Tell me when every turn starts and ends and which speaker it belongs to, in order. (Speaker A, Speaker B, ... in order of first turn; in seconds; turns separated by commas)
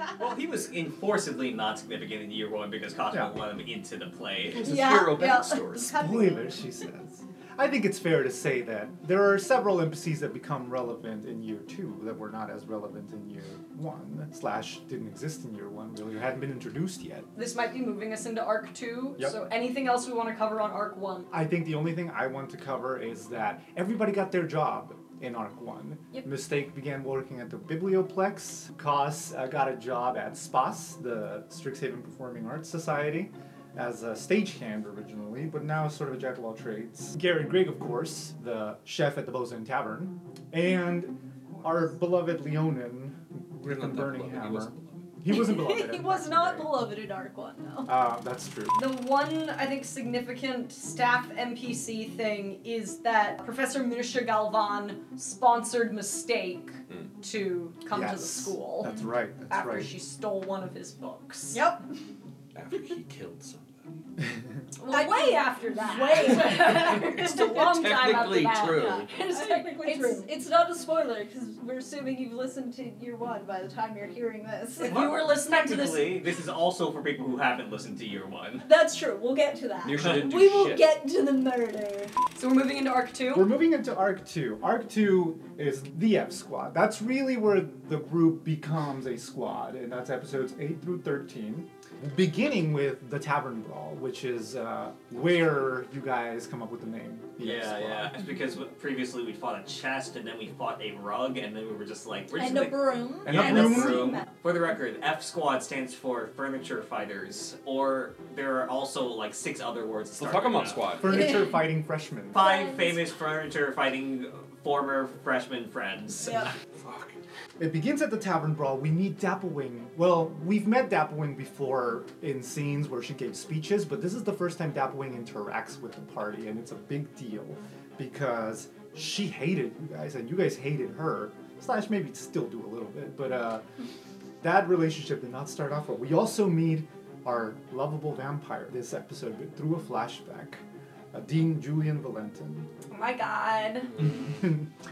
Speaker A: 0.2-4.6, Speaker B: 4.5-6.0, Speaker C: 4.6-6.6, Speaker D: 6.0-17.3, Speaker E: 17.4-21.3, Speaker D: 21.3-46.7, Speaker B: 43.6-44.9, Speaker C: 45.3-47.9, Speaker D: 47.9-48.8, Speaker E: 48.7-58.9, Speaker D: 57.9-59.9, Speaker E: 59.5-61.6, Speaker C: 61.5-61.8, Speaker B: 62.5-64.0, Speaker E: 64.8-70.3, Speaker C: 64.9-67.4, Speaker B: 66.7-69.1, Speaker C: 68.7-75.0, Speaker E: 74.8-76.2, Speaker A: 74.9-78.7, Speaker C: 78.6-82.1, Speaker B: 79.8-80.9, Speaker E: 82.4-83.5, Speaker D: 83.3-98.2, Speaker A: 97.4-111.0, Speaker C: 102.3-104.3, Speaker D: 103.2-104.2, Speaker B: 110.2-111.3, Speaker D: 111.0-112.5, Speaker A: 112.3-116.5, Speaker C: 112.3-113.0, Speaker C: 116.2-116.5, Speaker B: 116.8-117.2, Speaker D: 117.6-133.6, Speaker D: 134.4-140.6, Speaker D: 141.1-142.7, Speaker E: 142.9-143.9, Speaker D: 144.0-144.7